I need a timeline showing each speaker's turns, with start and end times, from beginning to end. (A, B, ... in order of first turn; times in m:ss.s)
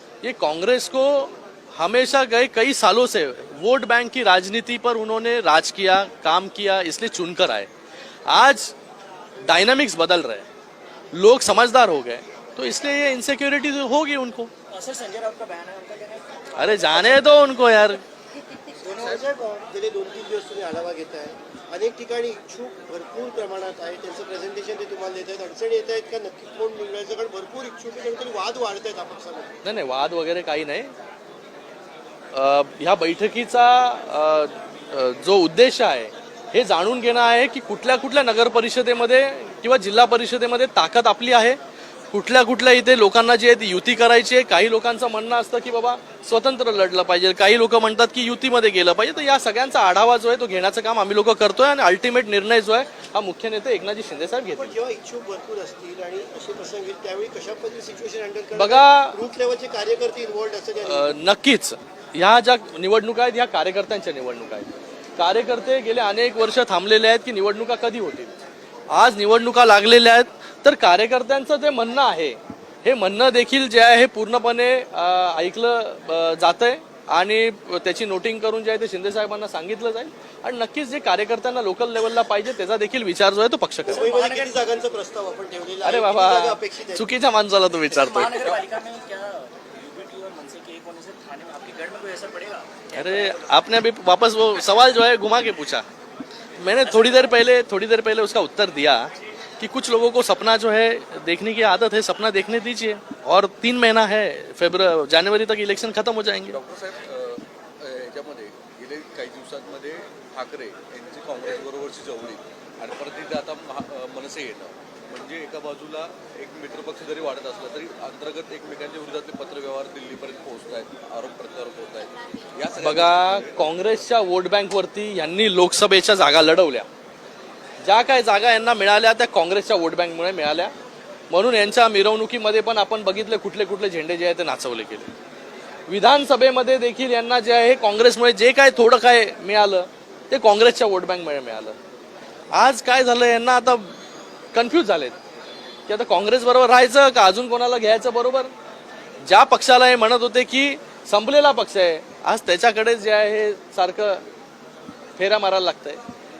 0:00.2-0:07.7 A
0:08.3-0:08.8 A
0:09.4-0:10.5 A
0:11.1-0:14.5 A
0:14.7-0:17.0 B
0:16.6-0:18.0 A
0:16.8-0:17.3 C
0:18.4-0:19.2 B
0:18.8-0:29.5 C
0:29.6-0:30.9 A
0:32.3-0:41.6 A
0:42.1-0:54.8 A
0:54.5-1:01.1 C
0:58.6-0:59.2 A
1:00.8-1:08.3 A
1:08.9-1:24.1 A
1:23.9-1:27.1 C
1:23.9-1:25.0 B
1:25.8-1:28.6 A
1:27.9-1:33.6 B
1:32.9-1:35.8 A
1:36.6-1:46.6 A
1:46.5-2:03.6 D
2:02.8-2:06.9 A
2:07.8-2:10.7 A
2:11.3-2:15.1 A
2:15.9-2:21.8 A
2:22.5-2:24.0 A
2:24.5-2:25.2 A
2:25.9-2:28.5 A
2:29.2-2:34.2 A
2:35.2-2:36.0 A